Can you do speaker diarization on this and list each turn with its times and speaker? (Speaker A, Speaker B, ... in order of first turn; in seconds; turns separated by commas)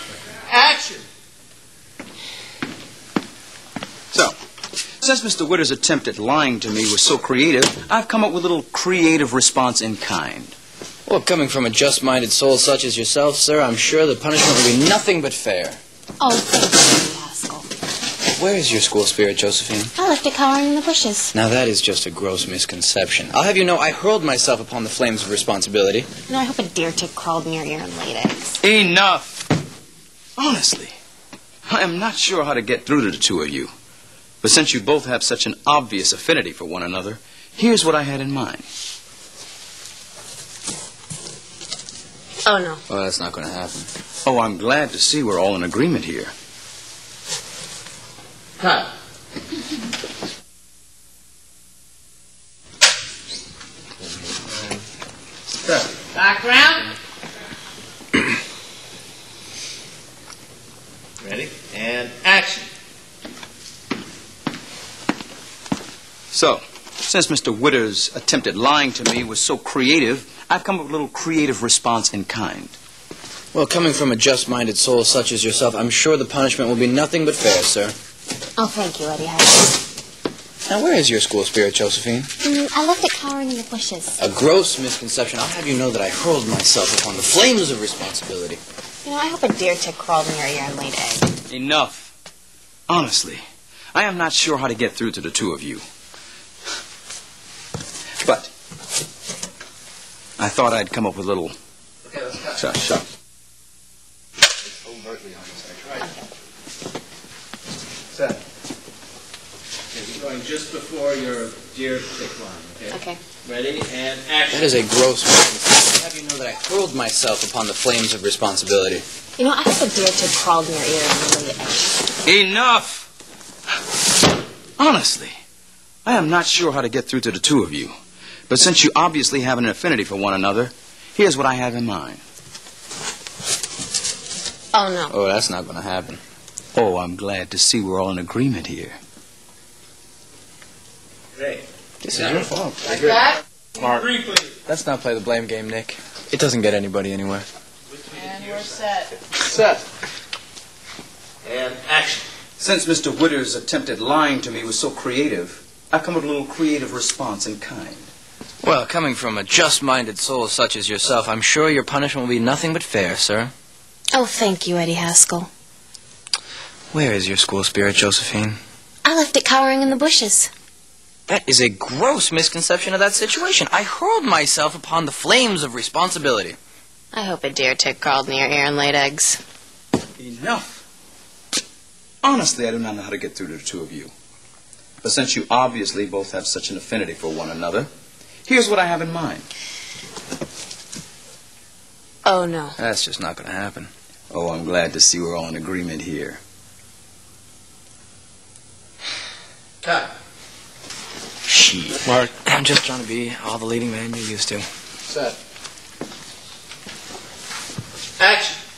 Speaker A: 0.4-1.0, Speaker B: 5.0-10.6, Speaker C: 11.1-15.8, Speaker D: 16.2-17.7, Speaker C: 18.3-19.9, Speaker D: 20.0-21.3, Speaker C: 21.3-26.1, Speaker D: 26.3-28.6, Speaker B: 28.6-29.5, Speaker B: 30.4-31.0, Speaker B: 31.7-33.7, Speaker B: 34.4-38.6, Speaker D: 42.5-42.8, Speaker C: 42.9-43.9, Speaker B: 44.2-46.3, Speaker A: 48.6-48.9, Speaker A: 54.4-54.7, Speaker A: 55.6-56.9, Speaker A: 61.2-62.7, Speaker B: 66.3-72.7, Speaker C: 73.5-77.9, Speaker D: 78.6-79.8, Speaker C: 80.7-82.3, Speaker D: 82.4-84.2, Speaker C: 84.2-88.6, Speaker D: 89.0-91.3, Speaker B: 91.5-92.1, Speaker B: 92.9-93.4, Speaker B: 93.9-95.8, Speaker B: 98.2-98.5, Speaker B: 100.4-101.5, Speaker A: 102.2-102.5, Speaker B: 102.5-103.0, Speaker A: 104.9-106.0, Speaker D: 106.0-106.3, Speaker A: 109.9-112.9, Speaker D: 112.9-113.2, Speaker A: 113.4-114.7, Speaker C: 114.5-119.0, Speaker D: 119.4-122.0, Speaker B: 122.2-123.1, Speaker B: 124.8-125.4, Speaker B: 126.0-127.9, Speaker B: 128.5-132.2, Speaker D: 134.7-135.2, Speaker C: 135.1-136.2, Speaker B: 136.8-139.0, Speaker A: 141.4-141.6, Speaker C: 142.0-142.6, Speaker A: 142.4-144.4, Speaker C: 144.7-147.5, Speaker A: 147.9-149.8, Speaker A: 151.4-152.2, Speaker B: 152.6-158.1, Speaker C: 158.6-163.5, Speaker D: 164.1-165.5, Speaker C: 166.9-168.6, Speaker D: 169.1-170.5, Speaker C: 171.3-176.6, Speaker D: 177.1-179.4, Speaker B: 180.2-180.8, Speaker B: 182.2-184.1, Speaker B: 185.0-187.9, Speaker B: 188.5-189.5, Speaker D: 192.2-192.8, Speaker C: 192.8-193.9, Speaker B: 194.3-196.4, Speaker A: 199.8-200.1, Speaker C: 201.5-204.7, Speaker A: 205.1-205.3, Speaker A: 208.2-208.6